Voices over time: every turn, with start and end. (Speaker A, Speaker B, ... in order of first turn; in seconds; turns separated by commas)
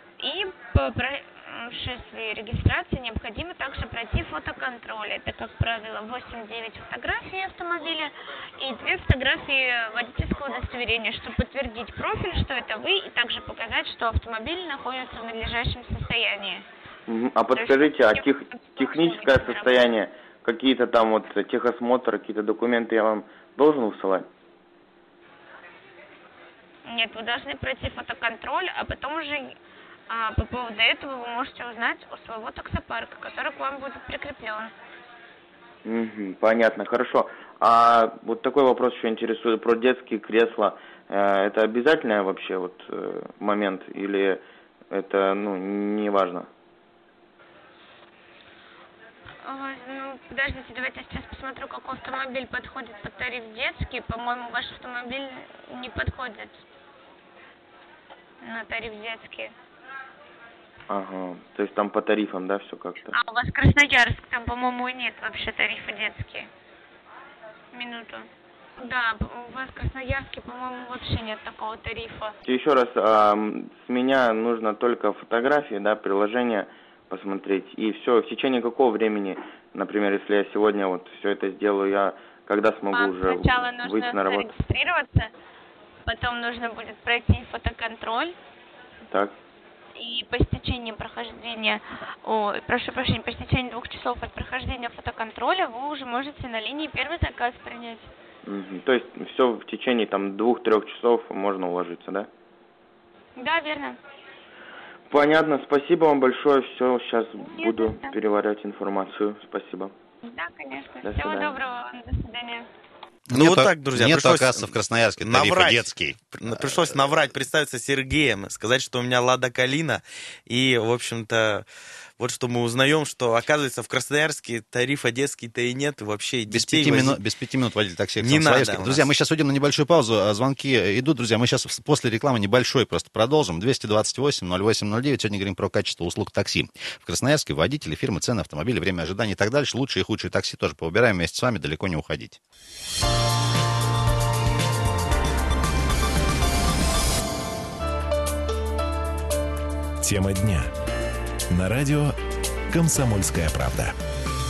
Speaker A: 0.2-16.6, Speaker B: 17.1-24.3, Speaker A: 17.5-19.7, Speaker A: 26.9-29.5, Speaker A: 30.1-34.7, Speaker B: 35.8-46.5, Speaker A: 49.4-56.6, Speaker A: 58.4-59.5, Speaker B: 60.9-63.1, Speaker A: 63.1-66.5, Speaker A: 67.7-72.3, Speaker B: 72.4-84.5, Speaker A: 82.9-85.3, Speaker A: 86.0-88.3, Speaker B: 89.1-89.3, Speaker A: 90.0-98.1, Speaker B: 98.5-102.3, Speaker A: 103.3-104.0, Speaker B: 105.1-109.9, Speaker A: 107.4-108.2, Speaker A: 110.2-112.7, Speaker B: 111.0-111.5, Speaker C: 113.3-117.3, Speaker D: 113.3-121.7, Speaker D: 122.2-127.2, Speaker C: 126.5-142.4, Speaker D: 128.2-129.1, Speaker E: 150.0-150.7, Speaker E: 151.5-152.1, Speaker E: 152.7-153.9